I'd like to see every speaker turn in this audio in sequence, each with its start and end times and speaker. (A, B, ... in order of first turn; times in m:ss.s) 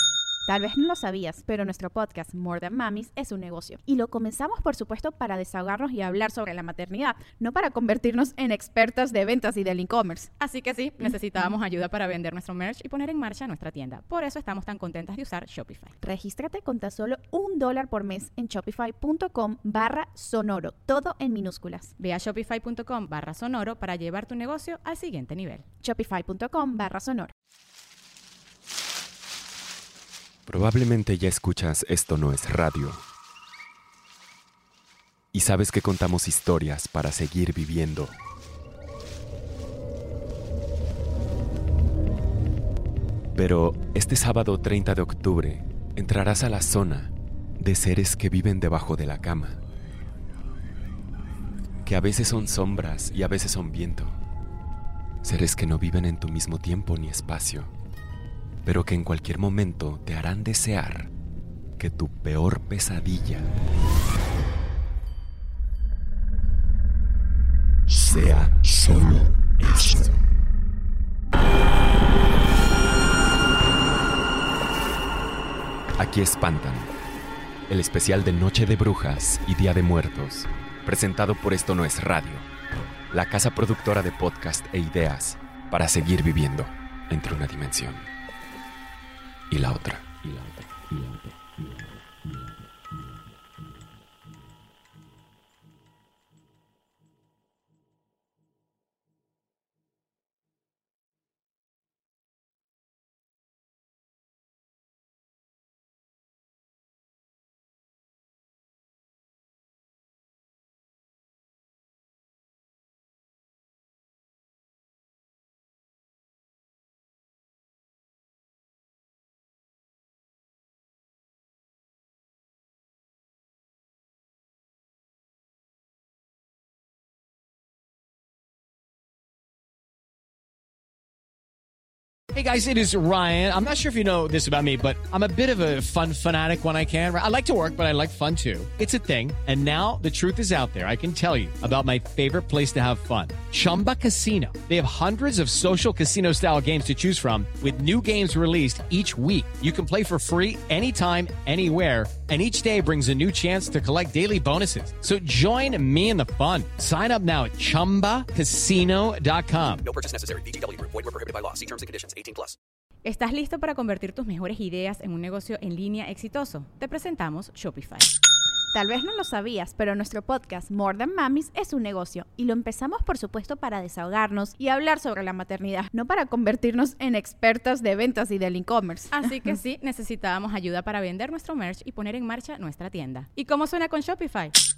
0:00.5-0:10.3 A
0:10.4-0:16.0 B
0:16.0-0:21.9 A
0:22.0-0:25.6 B
0:25.8-0:27.3 A
0:30.5-0:33.0 C
0:35.3-0:38.2 C
0:43.3-0:49.6 C
0:51.8-0:54.2 C
0:55.2-0:57.7 C
0:58.6-1:01.1 C
1:01.8-1:03.5 C
1:07.9-1:10.2 C
1:16.0-1:16.9 C
1:17.7-1:22.5 C
1:23.1-1:28.1 C
1:29.5-1:31.8 C
2:12.3-2:39.9 D
2:39.8-2:42.6 E
2:43.0-2:48.1 B
2:48.7-2:59.2 A
2:59.1-3:04.5 B